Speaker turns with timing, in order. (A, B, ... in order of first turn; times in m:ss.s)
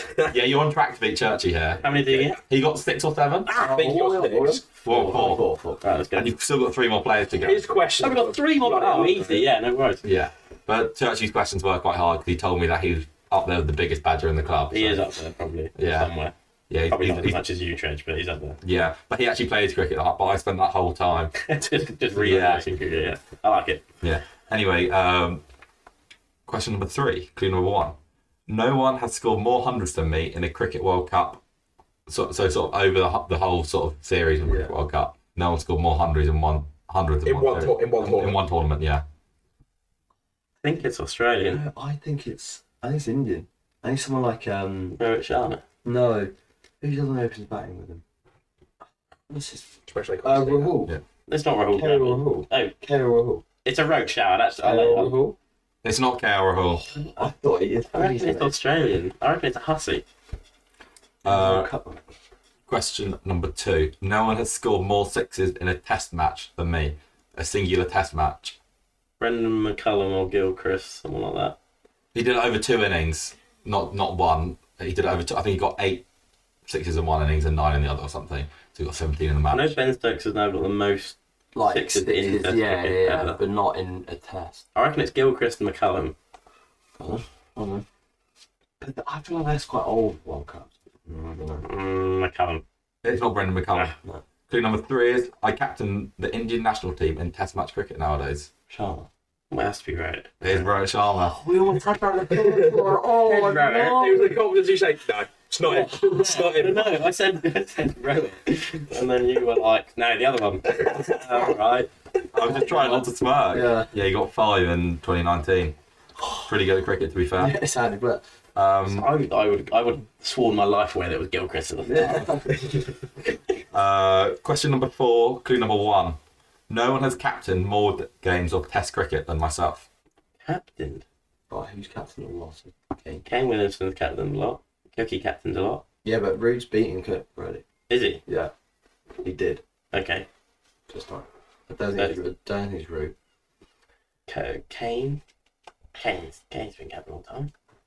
0:00.3-0:03.5 A
0:01.8-0:02.4 B
0:03.4-0:04.6 C
0:03.6-0:05.8 D
0:04.8-0:05.4 A
0:04.9-0:06.3 B
0:06.2-0:07.6 A
0:07.4-0:09.5 C
0:08.0-0:10.0 B
0:10.0-0:15.0 A
0:14.7-0:16.3 B
0:15.8-0:16.1 A
0:16.7-0:17.4 A
0:16.9-0:18.6 B
0:18.6-0:21.3 A
0:21.4-0:23.8 B
0:22.1-0:22.6 A
0:24.0-0:25.4 A
0:26.5-0:28.0 A
0:28.5-0:31.4 A
0:32.1-0:39.0 A
0:34.4-0:34.7 D
0:37.2-0:38.4 C
0:40.6-0:41.6 B
0:41.5-0:45.0 D
0:44.9-0:45.6 B
0:45.8-0:48.0 D
0:49.3-0:49.7 D
0:49.9-0:50.8 C
0:50.2-0:50.9 D
0:51.3-0:52.7 B
0:51.7-0:53.4 D
0:53.6-0:55.2 B
0:54.6-0:55.4 D
0:55.8-0:56.8 A
0:57.1-0:58.6 D
0:57.9-1:00.0 B
1:01.2-1:01.7 A
1:01.2-1:02.0 D
1:02.7-1:08.6 A
1:09.2-1:11.6 B
1:12.1-1:16.0 A
1:16.7-1:19.8 A
1:19.5-1:23.4 B
1:21.5-1:24.6 D
1:24.7-1:26.1 B
1:27.0-1:27.8 D
1:28.8-1:31.6 D
1:31.6-1:32.6 B
1:33.0-1:33.9 A
1:34.5-1:38.5 A
1:38.7-1:39.1 D
1:39.5-1:40.6 B
1:40.4-1:41.4 A
1:41.2-1:44.4 D
1:42.3-1:42.9 C
1:43.0-1:44.3 B
1:43.8-1:47.0 C
1:45.6-1:46.6 D
1:46.1-1:51.9 B
1:52.3-1:55.8 A
1:52.3-1:53.9 D
1:56.2-1:56.5 D
1:56.4-1:57.6 A
1:57.4-1:58.2 D
1:58.5-1:59.1 A
1:58.8-2:02.4 B
2:01.9-2:02.7 D
2:03.7-2:06.2 A
2:06.7-2:09.9 A
2:10.4-2:11.0 B
2:11.5-2:13.2 D
2:13.2-2:15.8 B
2:16.0-2:17.6 D
2:17.9-2:18.2 B
2:18.2-2:18.5 D
2:19.2-2:19.6 D
2:19.9-2:20.3 B
2:20.9-2:23.1 D
2:22.0-2:22.2 B
2:24.3-2:25.2 B
2:25.9-2:27.5 B